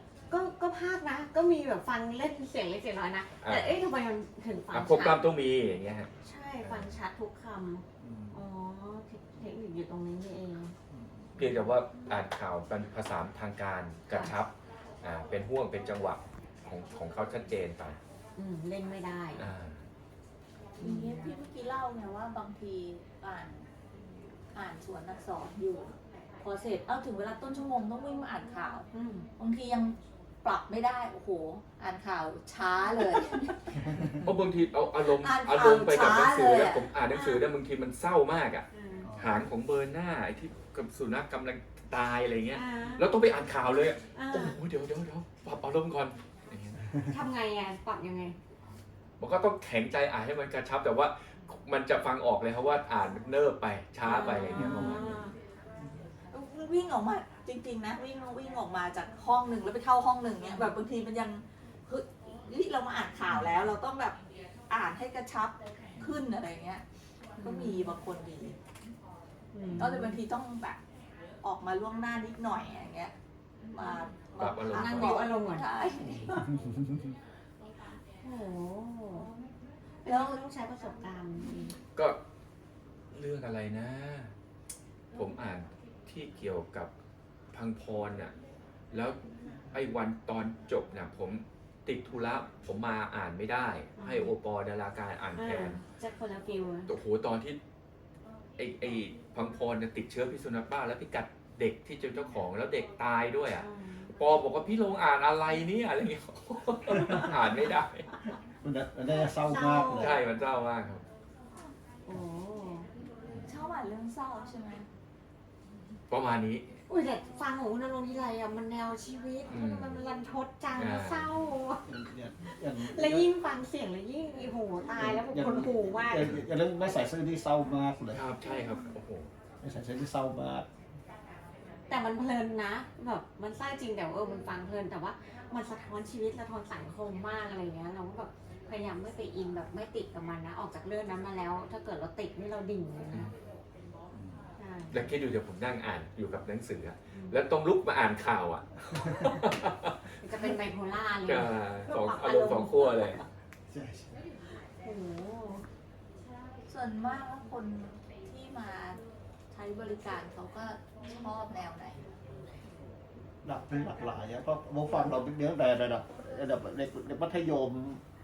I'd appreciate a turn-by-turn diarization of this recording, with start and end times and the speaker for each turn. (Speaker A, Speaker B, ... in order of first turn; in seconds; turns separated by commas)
Speaker A: 0.3-5.3, Speaker B: 3.4-3.8, Speaker B: 4.7-6.1, Speaker A: 6.2-10.8, Speaker B: 6.6-6.9, Speaker C: 8.0-8.4, Speaker C: 10.9-11.4, Speaker B: 11.3-14.5, Speaker A: 14.1-14.4, Speaker B: 15.0-18.0, Speaker A: 18.4-19.5, Speaker B: 19.4-19.8, Speaker A: 20.8-21.3, Speaker D: 20.8-23.7, Speaker D: 24.5-34.1, Speaker A: 28.9-29.3, Speaker B: 34.2-46.8, Speaker D: 35.1-36.8, Speaker A: 37.1-37.4, Speaker A: 38.7-39.1, Speaker C: 39.0-39.4, Speaker A: 42.5-43.1, Speaker A: 44.1-44.5, Speaker A: 47.1-48.4, Speaker B: 49.2-55.0, Speaker A: 54.0-55.3, Speaker C: 54.5-55.2, Speaker D: 56.3-64.2, Speaker A: 60.5-60.7, Speaker B: 63.3-63.6, Speaker D: 64.7-66.8, Speaker D: 67.4-68.6, Speaker A: 67.4-67.9, Speaker A: 69.5-70.2, Speaker D: 69.8-70.8, Speaker D: 71.4-73.2, Speaker D: 73.7-76.5, Speaker B: 74.4-75.2, Speaker A: 74.7-75.7, Speaker A: 78.2-79.3, Speaker A: 80.0-81.7, Speaker D: 80.0-80.4, Speaker D: 81.4-81.7, Speaker B: 83.1-84.3, Speaker B: 85.1-86.9, Speaker B: 87.5-88.3, Speaker B: 88.9-89.2, Speaker B: 89.7-95.8, Speaker A: 94.0-94.3, Speaker A: 95.3-96.9, Speaker B: 96.9-97.6, Speaker B: 98.6-108.1, Speaker A: 103.6-104.1, Speaker C: 108.6-110.2, Speaker A: 109.2-110.2, Speaker B: 109.9-111.0, Speaker A: 112.0-112.9, Speaker D: 113.5-114.9, Speaker B: 116.1-116.7, Speaker A: 116.9-121.8, Speaker B: 119.5-120.0, Speaker B: 120.8-121.3, Speaker C: 121.9-123.3, Speaker A: 122.5-126.4, Speaker C: 124.9-128.3, Speaker B: 128.1-129.3, Speaker C: 129.6-130.7, Speaker A: 131.9-143.3, Speaker C: 144.1-144.5, Speaker A: 144.6-145.1, Speaker B: 144.9-149.9, Speaker A: 147.1-147.4, Speaker C: 148.9-149.3, Speaker A: 150.2-153.3, Speaker B: 151.3-153.2, Speaker D: 151.9-152.7, Speaker C: 153.7-154.1, Speaker A: 154.8-155.7, Speaker D: 156.7-159.0, Speaker D: 159.5-162.0, Speaker C: 163.4-168.0